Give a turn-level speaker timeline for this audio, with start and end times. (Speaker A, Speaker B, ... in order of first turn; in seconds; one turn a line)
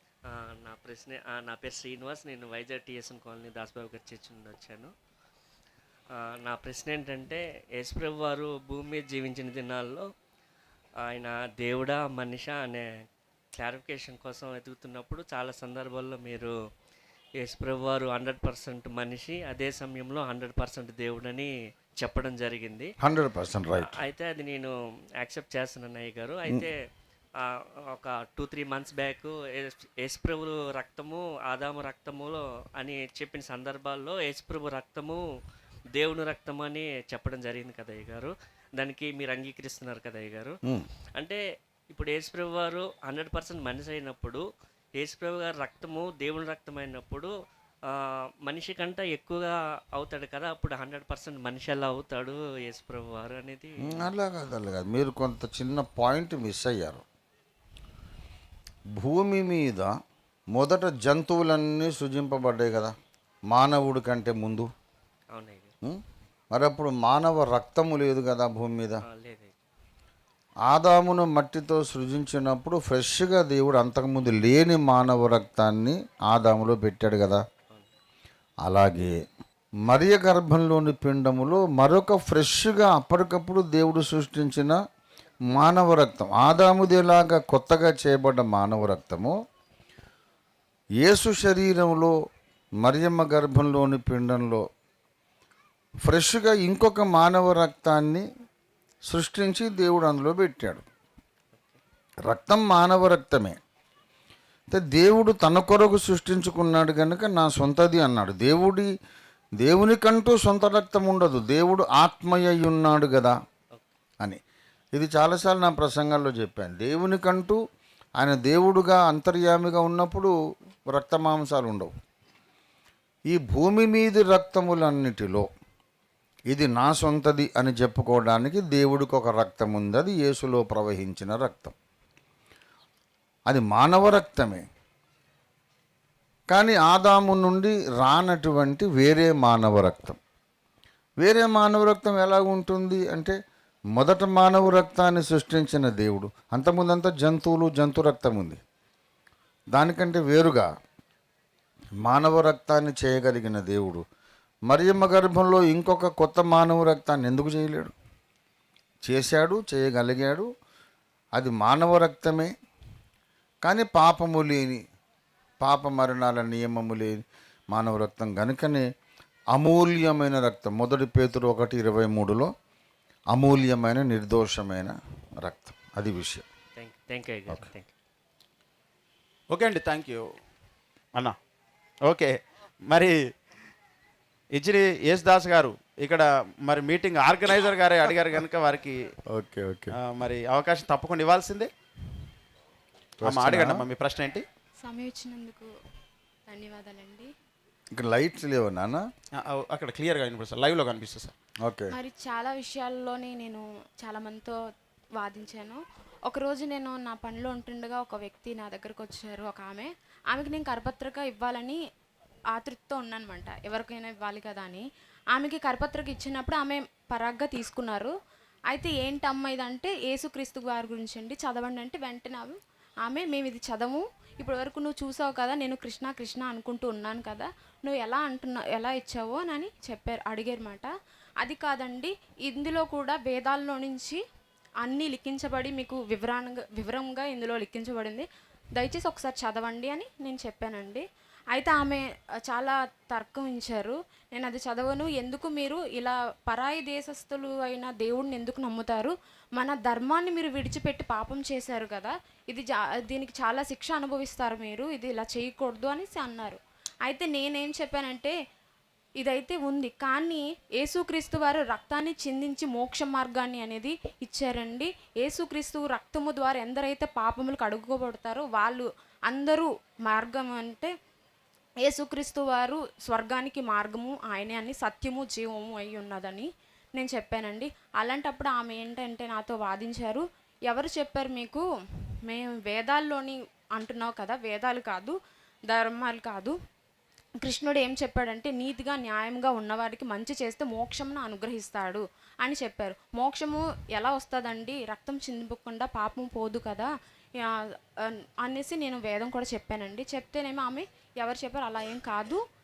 Speaker A: 0.3-4.9
Speaker A: 6.4-10.1
Speaker A: 11.0-12.9
Speaker A: 13.5-16.5
Speaker A: 17.4-22.9
Speaker B: 23.0-24.0
Speaker A: 23.8-26.8
Speaker A: 27.4-35.2
Speaker A: 35.9-40.5
Speaker A: 41.9-44.4
Speaker A: 45.0-47.3
Speaker A: 48.4-54.1
Speaker B: 53.9-57.0
Speaker B: 59.0-59.9
Speaker B: 60.5-62.9
Speaker B: 63.5-64.7
Speaker A: 65.3-65.7
Speaker B: 66.5-69.0
Speaker A: 69.0-69.5
Speaker B: 70.7-77.4
Speaker B: 78.6-79.1
Speaker B: 79.9-84.8
Speaker B: 85.5-89.3
Speaker B: 91.0-92.1
Speaker B: 92.8-94.6
Speaker B: 96.0-98.2
Speaker B: 99.0-100.8
Speaker A: 101.5-101.8
Speaker B: 102.2-103.6
Speaker B: 104.7-108.9
Speaker B: 109.6-113.4
Speaker B: 114.9-117.6
Speaker B: 118.2-120.3
Speaker B: 120.9-121.9
Speaker B: 123.3-125.5
Speaker B: 126.5-131.7
Speaker B: 133.5-134.6
Speaker B: 136.5-140.2
Speaker B: 141.2-143.3
Speaker B: 143.9-148.6
Speaker B: 149.7-150.7
Speaker B: 152.0-154.0
Speaker B: 154.7-157.9
Speaker B: 159.0-160.5
Speaker B: 161.3-162.5
Speaker B: 163.6-164.8
Speaker B: 165.6-167.2
Speaker B: 167.7-168.8
Speaker B: 169.5-172.5
Speaker B: 173.3-176.4
Speaker A: 176.8-177.9
Speaker C: 179.5-180.3
Speaker C: 182.0-183.2
Speaker C: 184.5-189.1
Speaker B: 189.3-189.9
Speaker C: 189.9-191.7
Speaker B: 193.2-193.8
Speaker C: 193.2-194.4
Speaker D: 194.8-195.7
Speaker D: 196.5-197.3
Speaker B: 197.9-199.0
Speaker C: 199.3-201.3
Speaker B: 201.6-201.9
Speaker D: 201.9-204.6
Speaker D: 205.2-211.8
Speaker D: 212.5-214.8
Speaker D: 215.3-218.1
Speaker D: 218.7-230.9
Speaker D: 231.4-234.2
Speaker D: 234.8-258.3
Speaker D: 259.2-270.9
Speaker D: 271.8-281.6
Speaker D: 282.3-285.1
Speaker D: 285.7-286.6
Speaker D: 287.4-296.9
Speaker D: 298.4-302.4